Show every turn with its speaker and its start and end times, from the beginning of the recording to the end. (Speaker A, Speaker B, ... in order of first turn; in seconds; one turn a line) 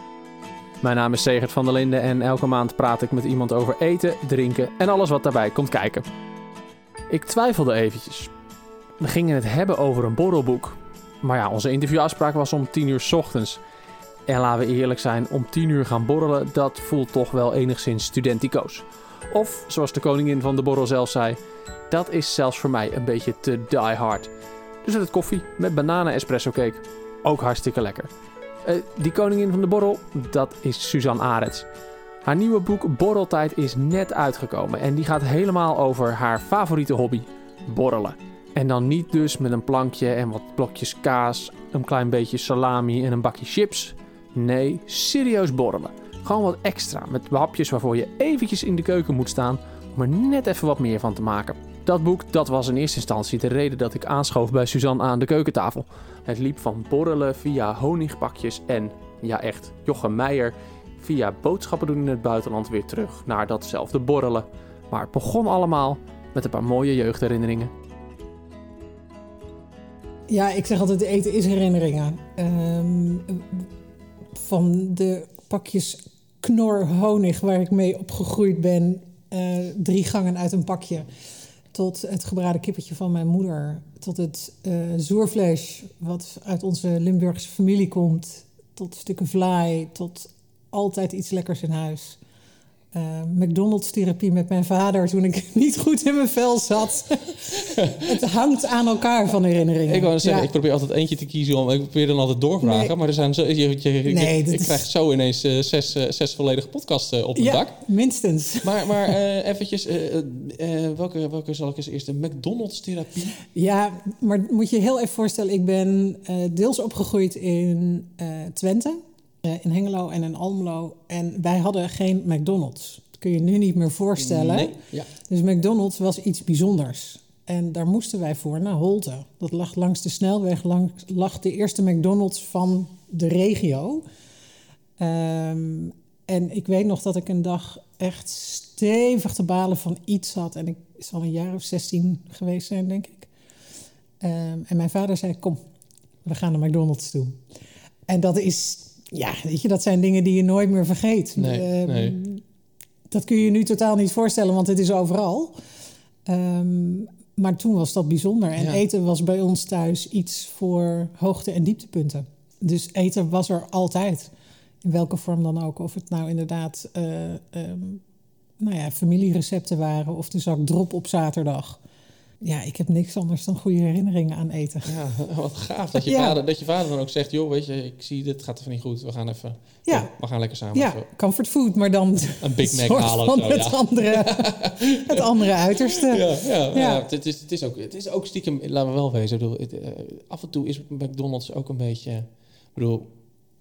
Speaker A: 0.8-6.0
Speaker A: 7.1-8.3
Speaker A: 9.0-13.6
Speaker A: 14.3-21.4
Speaker A: 21.9-24.3
Speaker A: 24.8-28.1
Speaker A: 28.6-31.6
Speaker A: 32.2-67.7
Speaker B: 70.3-73.7
Speaker B: 74.3-81.1
Speaker B: 81.7-92.2
Speaker B: 92.9-100.5
Speaker C: 97.6-98.2
Speaker C: 99.8-107.8
Speaker B: 102.6-102.9
Speaker B: 104.1-104.8
Speaker B: 107.3-109.2
Speaker C: 108.6-113.4
Speaker B: 113.4-134.0
Speaker C: 124.2-125.1
Speaker B: 135.0-143.3
Speaker B: 144.2-145.6
Speaker B: 146.2-147.4
Speaker B: 148.1-152.4
Speaker C: 151.4-152.2
Speaker B: 153.1-155.6
Speaker B: 156.2-164.3
Speaker B: 164.8-168.0
Speaker B: 168.6-171.8
Speaker B: 172.4-175.0
Speaker C: 174.8-181.0
Speaker B: 175.9-176.4
Speaker B: 179.8-180.1
Speaker B: 180.7-187.1
Speaker C: 182.4-193.1